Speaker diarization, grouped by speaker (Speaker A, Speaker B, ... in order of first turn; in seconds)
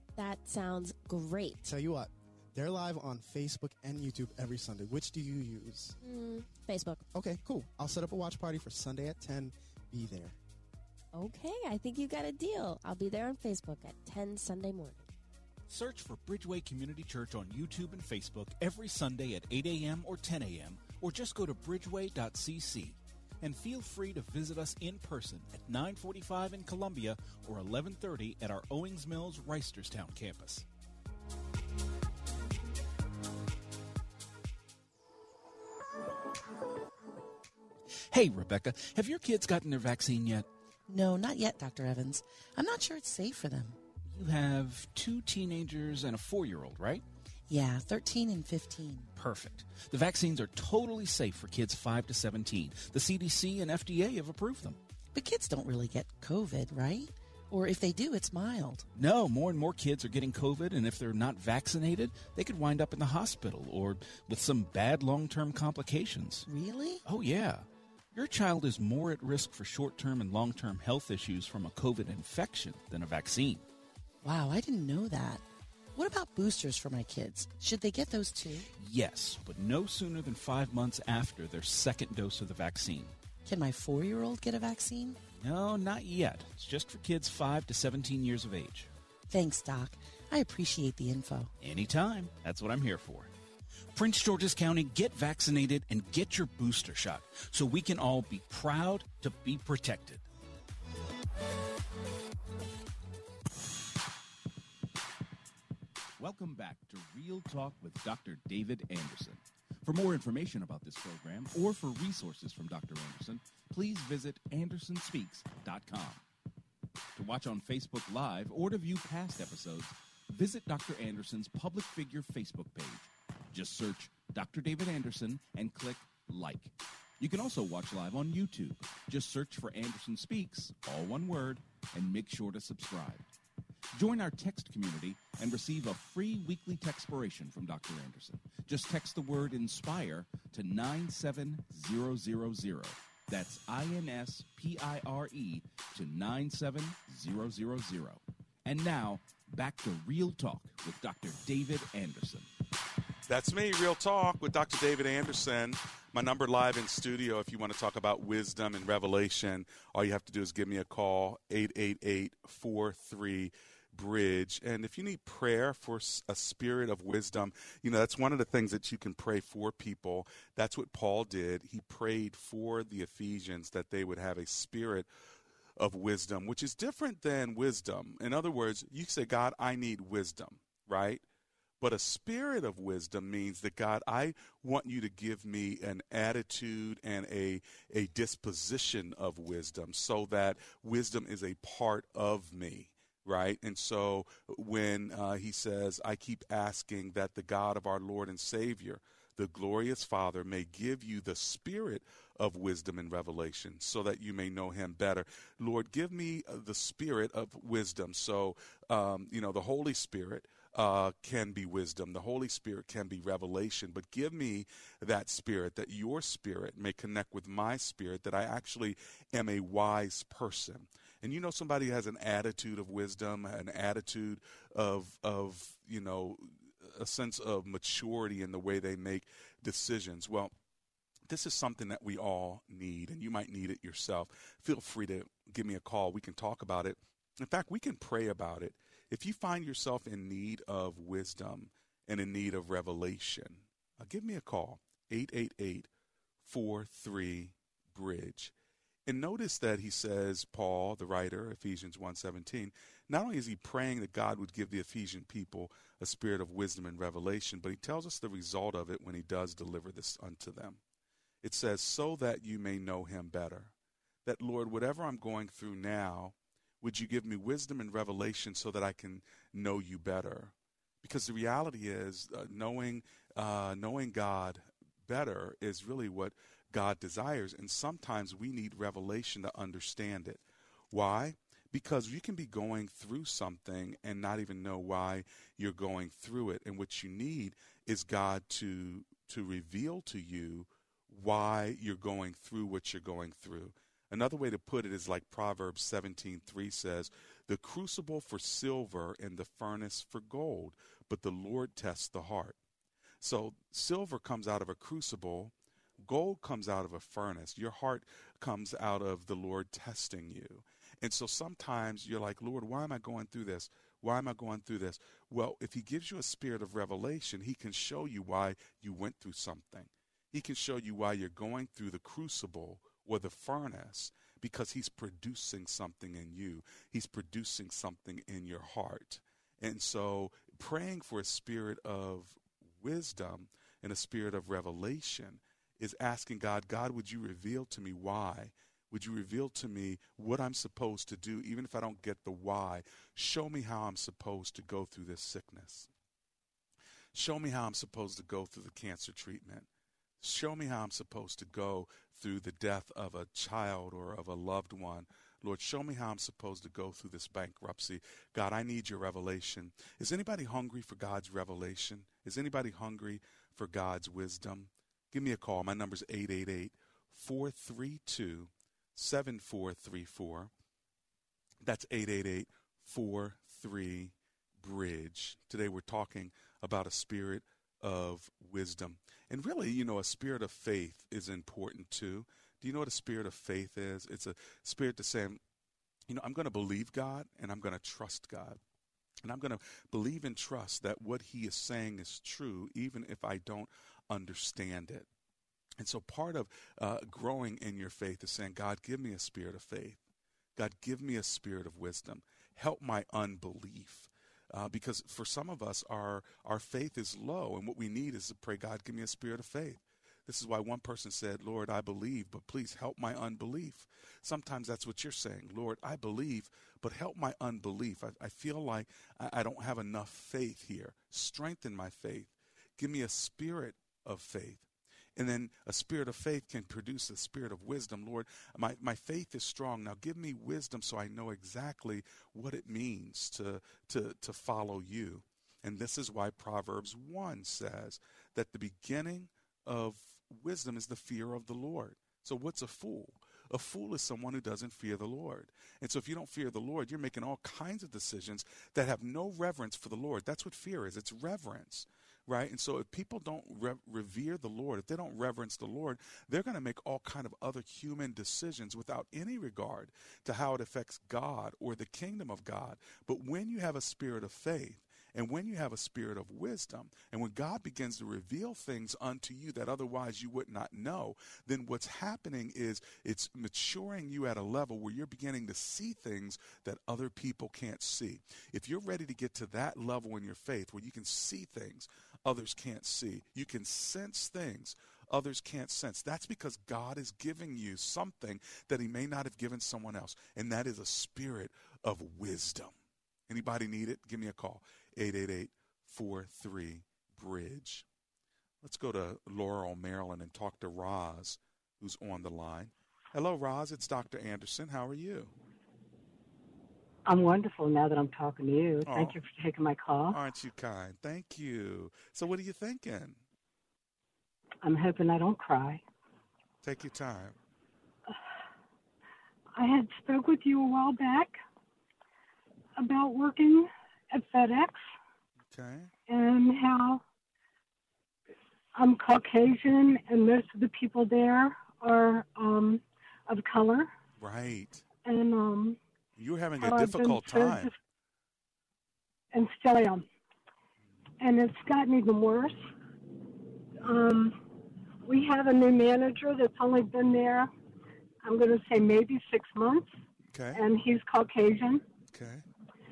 Speaker A: 0.5-1.0, 11.3-14.9
Speaker B: 1.6-6.0, 7.1-10.4
Speaker C: 15.7-30.6, 38.1-40.5, 44.1-47.0, 49.1-54.8, 58.9-66.4, 67.0-73.6, 78.8-83.2, 85.4-88.9, 91.6-93.3, 93.9-100.2, 106.2-116.2, 117.1-133.3, 133.9-152.5
Speaker D: 40.9-43.8, 47.5-49.1, 55.1-58.9, 66.5-67.0, 74.2-78.7, 83.4-85.2, 89.3-91.5
Speaker E: 153.2-175.1, 175.8-181.2, 181.8-230.5, 231.3-245.9, 246.4-248.5, 249.1-260.8, 261.4-263.7, 264.2-302.6, 303.2-345.9, 347.1-349.7, 350.2-370.5, 371.6-385.4, 386.1-388.6, 389.2-395.1, 395.8-400.0, 400.6-492.7, 493.3-497.9, 498.6-505.3, 508.9-509.2, 510.1-513.2, 516.6-517.4, 525.5-525.9, 534.2-534.9, 536.2-537.7, 550.3-550.6, 552.1-552.4
Speaker F: 507.1-510.2, 514.6-515.8, 519.6-521.4, 522.8-524.9, 526.1-527.0, 528.8-533.9, 535.0-535.8, 536.6-537.7, 539.3-540.1, 541.2-542.6, 543.8-544.4, 545.0-547.5, 548.2-549.9, 550.5-551.8